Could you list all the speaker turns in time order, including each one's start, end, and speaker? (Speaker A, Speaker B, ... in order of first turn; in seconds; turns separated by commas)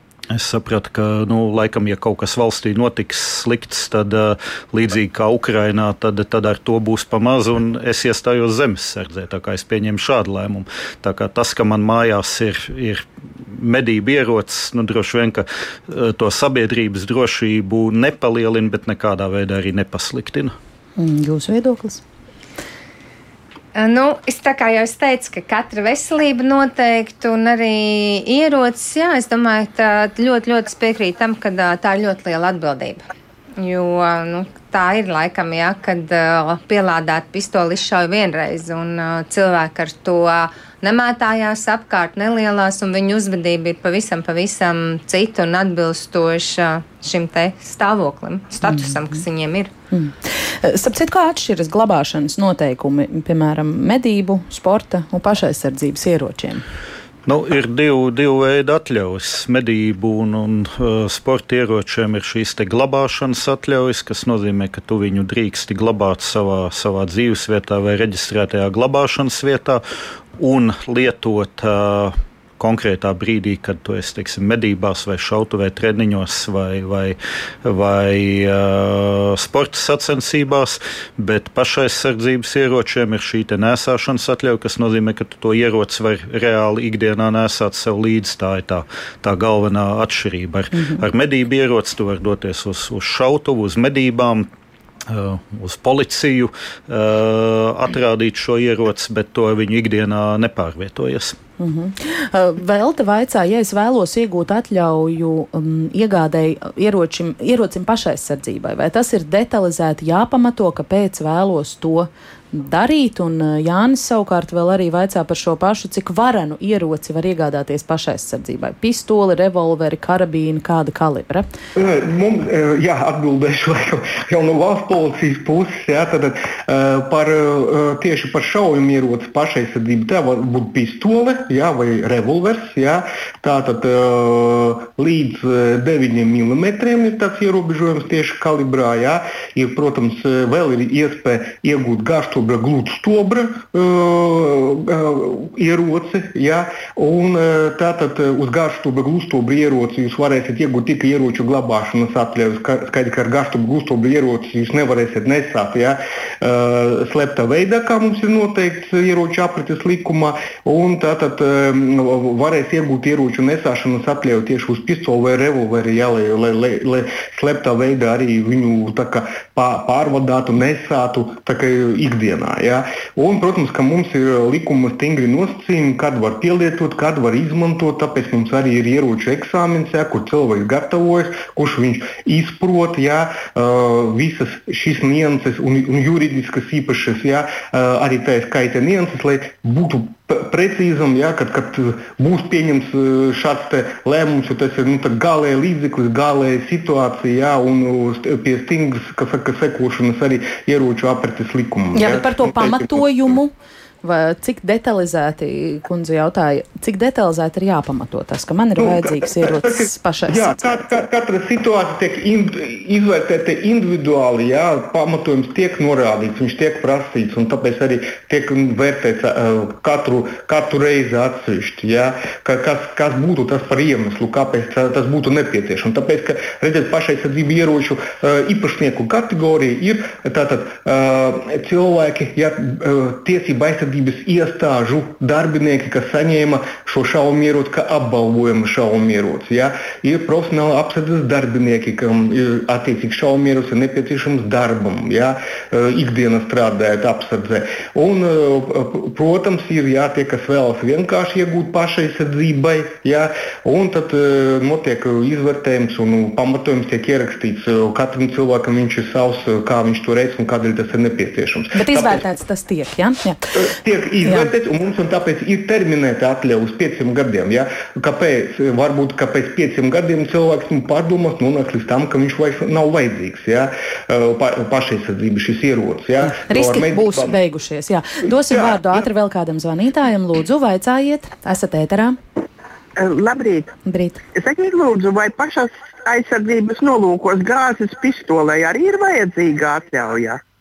Speaker A: 0.3-20.5, Speaker B: 21.0-22.0, Speaker C: 23.7-33.0, Speaker C: 33.6-49.7, Speaker B: 48.7-48.9, Speaker B: 49.9-56.6, Speaker A: 57.2-69.8, Speaker A: 70.4-94.5, Speaker A: 95.1-101.4, Speaker B: 101.6-121.5, Speaker D: 121.8-203.3, Speaker B: 201.9-203.5, Speaker B: 204.0-210.6, Speaker D: 208.8-262.2, Speaker B: 261.7-263.4, Speaker D: 263.5-277.3, Speaker B: 276.4-282.2, Speaker E: 283.0-283.7, Speaker B: 283.9-284.2, Speaker E: 284.3-290.4